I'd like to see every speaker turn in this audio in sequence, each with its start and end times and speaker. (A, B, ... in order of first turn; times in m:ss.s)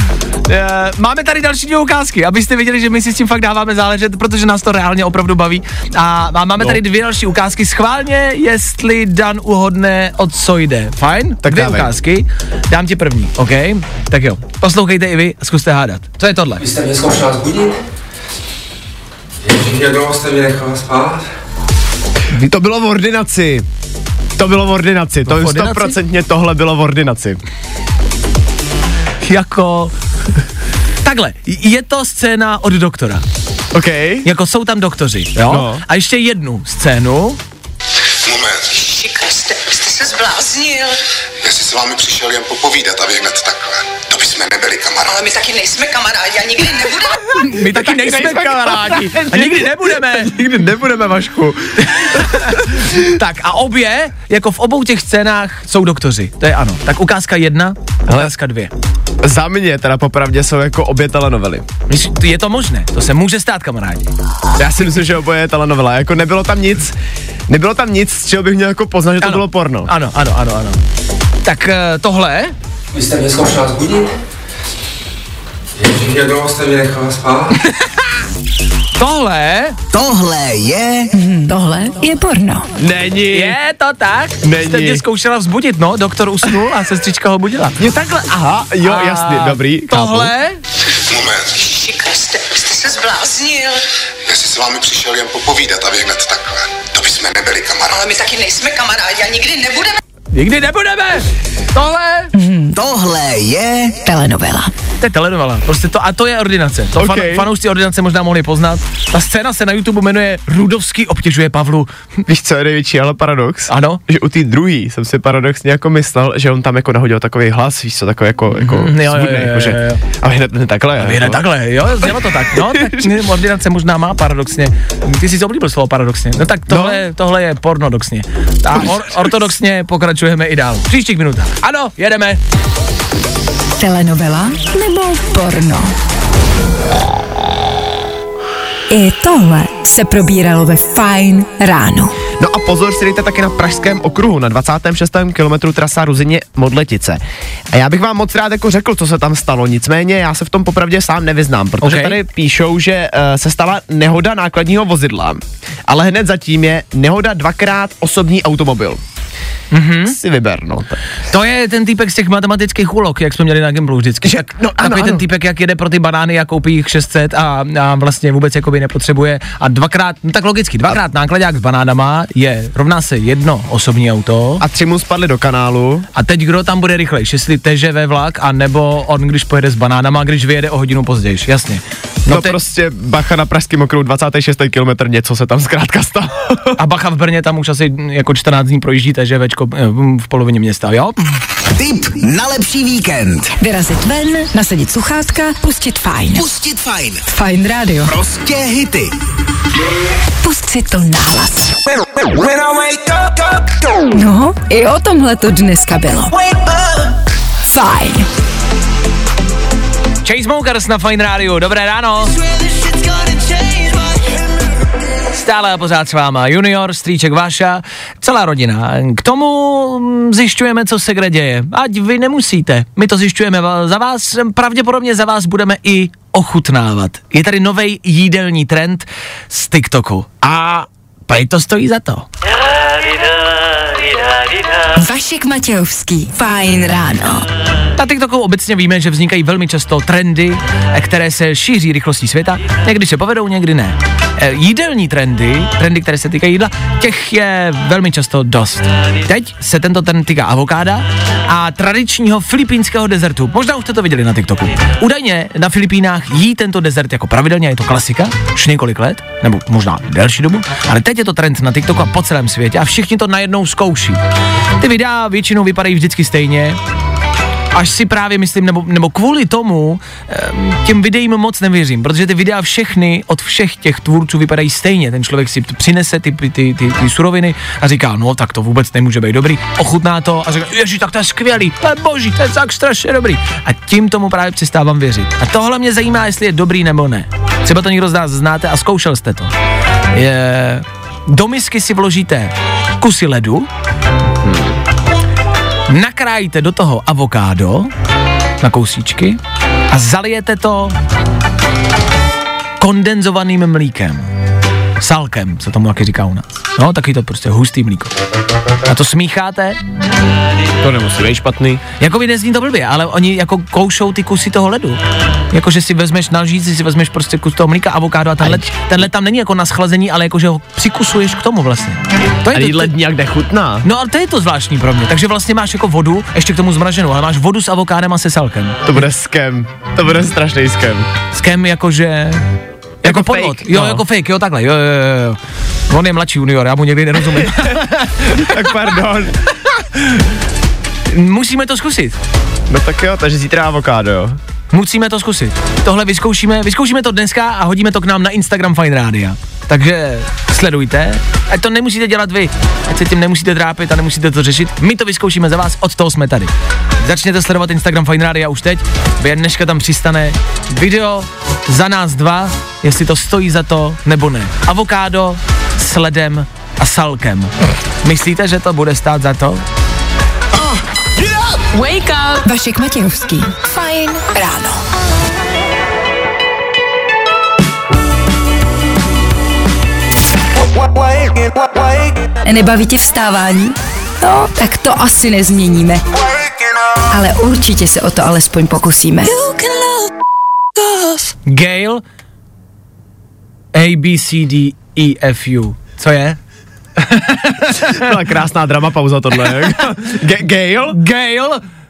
0:00.5-0:16.6 A
0:11.4-0:11.9 B
0:16.6-0:17.8 C
0:19.4-0:21.3 C
0:22.3-0:23.6 B
0:24.4-0:27.4 B
0:25.3-0:26.0 A
0:29.2-0:29.9 A
0:31.0-0:33.2 A
0:33.7-0:34.3 B
0:34.2-0:37.4 A
0:35.5-0:35.8 B
0:38.3-0:38.8 D
0:38.8-0:41.0 E
0:41.4-0:45.3 D
0:45.1-0:47.3 E
0:47.3-0:50.4 A
0:47.6-0:53.0 B
0:51.9-0:58.7 A
0:59.2-1:01.7 B
1:01.9-1:04.1 A
1:04.6-1:07.0 B
1:07.5-1:09.9 B
1:09.2-1:10.8 A
1:11.4-1:12.5 A
1:12.9-1:14.1 C
1:15.8-1:17.5 C
1:17.7-1:18.1 A
1:19.0-1:19.8 A
1:19.9-1:21.1 F
1:21.1-1:22.7 G
1:22.8-1:23.6 B
1:23.3-1:27.8 A
1:24.4-1:25.0 B
1:27.8-1:30.3 B
1:28.8-1:30.6 A
1:31.1-1:31.6 D
1:31.6-1:33.8 E
1:34.3-1:38.1 D
1:38.0-1:40.0 E
1:40.3-1:42.3 A
1:42.3-1:42.8 G
1:42.8-1:44.0 F
1:44.0-1:44.7 G
1:45.0-1:51.9 A
1:47.0-1:47.5 B
1:52.3-2:01.4 B
1:53.7-1:54.0 A
1:58.5-2:00.0 A
2:01.0-2:12.4 A
2:02.8-2:03.0 B
2:06.7-2:07.0 B
2:13.8-2:16.0 G
2:18.9-2:22.2 G
2:22.4-2:39.0 B
2:31.8-2:32.2 A
2:39.7-2:40.2 A
2:40.0-2:41.0 B
2:41.3-2:54.6 A
2:44.2-2:45.2 B
2:54.6-2:56.1 B
2:56.2-3:02.6 A
3:02.3-3:06.8 B
3:06.8-3:11.2 A
3:11.7-3:13.5 F
3:13.6-3:16.5 G
3:16.4-3:17.2 F
3:17.3-3:18.1 G
3:18.0-3:19.1 F
3:20.4-3:21.7 G
3:22.0-3:23.8 F
3:24.1-3:26.3 G
3:26.4-3:27.1 F
3:27.6-3:28.3 G
3:30.2-3:32.4 A
3:32.4-3:33.9 F
3:35.4-3:52.3 A
3:55.0-3:57.5 G
3:58.0-4:24.2 A
4:24.8-4:26.8 A
4:27.7-4:49.5 A
4:50.1-4:53.7 A
4:54.4-4:54.8 B
4:55.9-4:57.9 A
4:58.6-4:59.4 A
4:59.9-5:01.0 A
5:02.8-5:04.3 A
5:05.0-5:08.1 A
5:08.9-5:09.8 A
5:10.8-5:11.8 B
5:12.0-5:15.0 A
5:15.5-5:22.9 A
5:22.5-5:23.9 B
5:23.8-5:29.0 A
5:28.8-5:31.1 B
5:31.3-5:32.4 A
5:33.0-5:34.0 B
5:33.0-5:35.4 A
5:35.9-5:38.6 A
5:38.3-5:39.4 B
5:41.1-5:42.2 A
5:42.7-5:44.4 B
5:44.7-5:56.5 A
5:57.0-6:07.5 A
6:08.0-6:09.6 A
6:11.5-6:12.5 E
6:12.4-6:14.8 G
6:22.4-6:26.0 G
6:27.1-6:29.4 G
6:29.3-6:30.1 E
6:30.9-6:31.2 E
6:31.5-6:32.0 A
6:33.7-6:36.4 A
6:37.0-6:38.1 A
6:38.0-6:41.0 B
6:39.4-6:39.9 A
6:40.9-6:41.6 A